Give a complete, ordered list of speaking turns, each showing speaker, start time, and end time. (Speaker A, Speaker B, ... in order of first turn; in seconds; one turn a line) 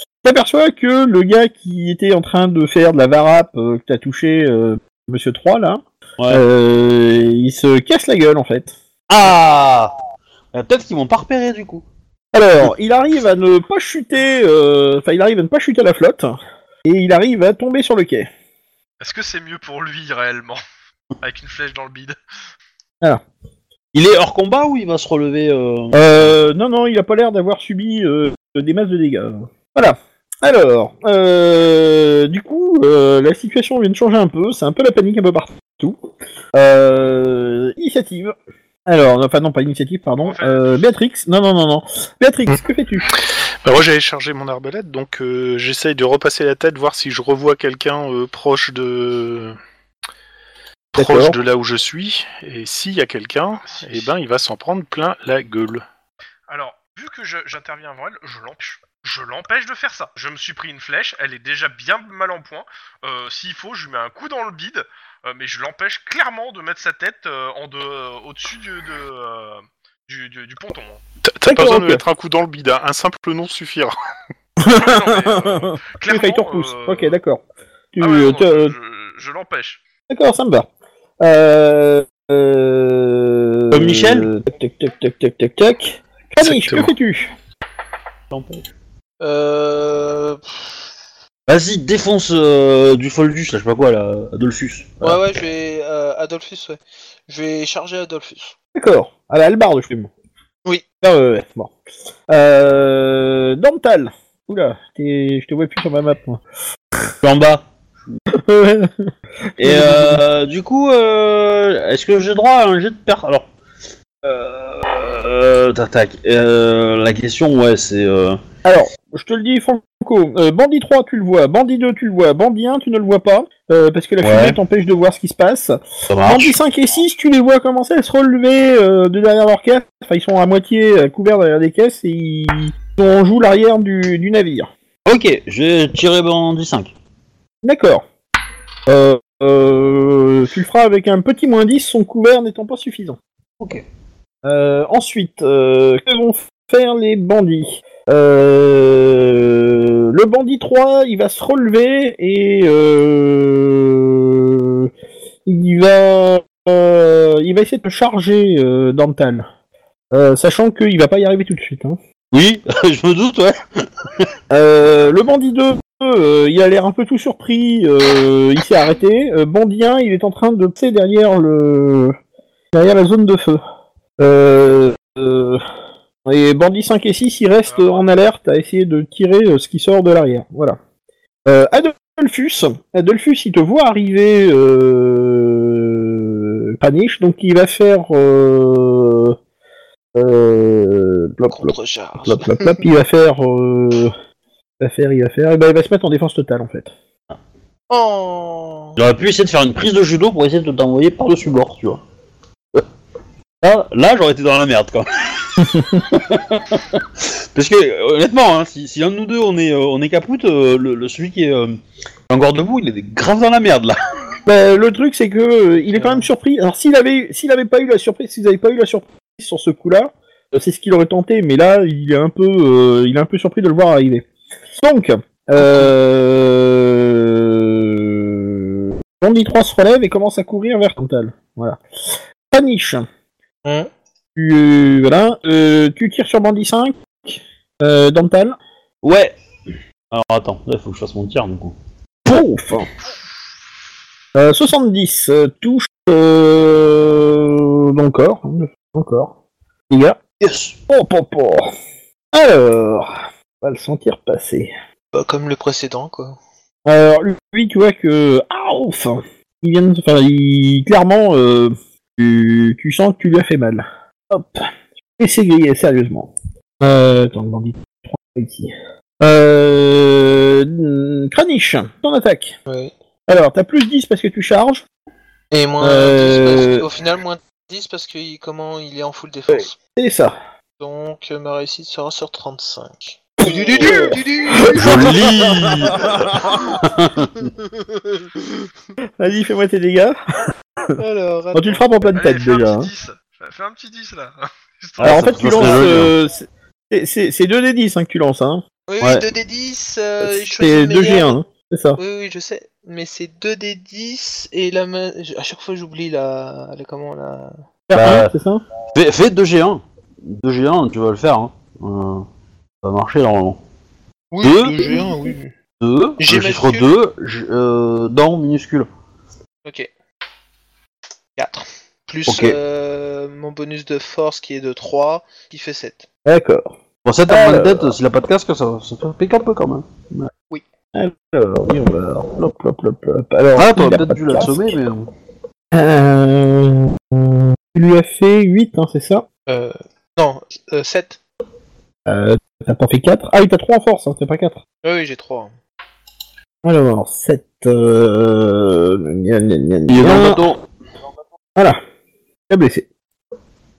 Speaker A: 0.2-8.7
Speaker B: 9.1-9.9
Speaker B: 10.5-11.8
Speaker A: 12.3-18.3
Speaker C: 19.0-20.6
Speaker C: 21.2-22.1
Speaker B: 23.9-26.3
Speaker A: 25.9-36.0
Speaker A: 36.5-38.3
Speaker A: 38.9-43.1
Speaker C: 40.2-40.9
Speaker D: 43.6-49.6
Speaker D: 50.9-55.8
Speaker A: 51.0-51.4
Speaker C: 53.6-54.1
Speaker C: 56.5-71.0
Speaker D: 71.2-73.9
Speaker A: 71.5-72.0
Speaker A: 74.6-77.4
Speaker C: 74.6-77.1
Speaker A: 77.9-78.7
Speaker C: 78.0-79.8
Speaker A: 80.1-80.7
Speaker A: 81.2-87.3
Speaker B: 83.7-84.3
Speaker D: 86.4-86.9
Speaker B: 88.3-88.6
Speaker E: 89.2-90.8
Speaker B: 91.5-95.2
Speaker E: 95.0-98.5
Speaker A: 98.7-100.1
Speaker A: 101.0-101.7
Speaker A: 102.3-106.4
Speaker B: 107.2-108.2
Speaker A: 108.3-109.0
Speaker A: 109.6-110.2
Speaker B: 109.6-113.5
Speaker B: 114.2-118.4
Speaker A: 118.6-134.7
Speaker B: 124.2-124.6
Speaker B: 126.1-126.5
Speaker B: 135.1-136.9
Speaker A: 137.6-138.0
Speaker A: 138.9-143.2
Speaker A: 144.4-154.9
Speaker A: 155.4-159.4
Speaker A: 160.1-162.0
Speaker B: 162.3-164.2
Speaker A: 164.5-172.2
Speaker A: 172.7-173.6
Speaker A: 174.2-175.6
Speaker A: 176.2-180.8
Speaker C: 177.7-178.0
Speaker A: 181.4-189.3
Speaker A: 190.1-194.1
Speaker E: 191.5-192.8
Speaker A: 194.8-196.9
Speaker E: 197.9-198.9
Speaker B: 199.0-202.0
Speaker B: 203.6-211.8
Speaker B: 212.3-214.0
Speaker A: 214.4-224.2
Speaker E: 215.9-216.3
Speaker A: 224.8-231.8
Speaker E: 225.6-225.9
Speaker A: 232.5-233.1
Speaker A: 234.3-238.6
Speaker B: 239.0-239.4
Speaker B: 240.1-241.8
Speaker A: 242.2-242.9
Speaker A: 244.3-249.3
Speaker A: 249.9-250.2
Speaker B: 250.4-250.8
Speaker A: 250.9-251.7
Speaker A: 252.3-254.7
Speaker E: 255.1-256.4
Speaker A: 256.9-272.6
Speaker A: 273.3-274.8
Speaker E: 275.5-279.8
Speaker A: 275.8-276.9
Speaker A: 279.5-280.4
Speaker E: 280.8-286.6
Speaker A: 283.4-286.6
Speaker B: 284.7-287.5
Speaker E: 287.6-288.6
Speaker A: 289.2-290.1
Speaker E: 290.9-291.8
Speaker A: 291.5-292.9
Speaker C: 292.1-295.8
Speaker B: 295.0-296.1
Speaker A: 295.0-298.6
Speaker E: 298.9-301.4
Speaker B: 299.0-299.2
Speaker A: 300.2-302.0
Speaker E: 302.0-307.6
Speaker A: 307.9-308.6
Speaker B: 307.9-308.3
Speaker B: 308.9-312.2
Speaker B: 312.8-313.6
Speaker E: 314.3-315.5
Speaker B: 314.4-315.0
Speaker B: 315.8-318.9
Speaker E: 316.2-316.9
Speaker E: 321.4-326.1
Speaker B: 322.3-322.6
Speaker A: 326.2-326.7
Speaker B: 327.0-330.3
Speaker A: 327.3-327.9
Speaker A: 330.9-334.6
Speaker B: 333.6-335.1
Speaker A: 335.7-339.2
Speaker E: 339.5-341.2
Speaker A: 342.1-344.6
Speaker E: 344.8-345.5
Speaker A: 346.6-350.4
Speaker B: 349.9-350.6
Speaker A: 352.5-352.9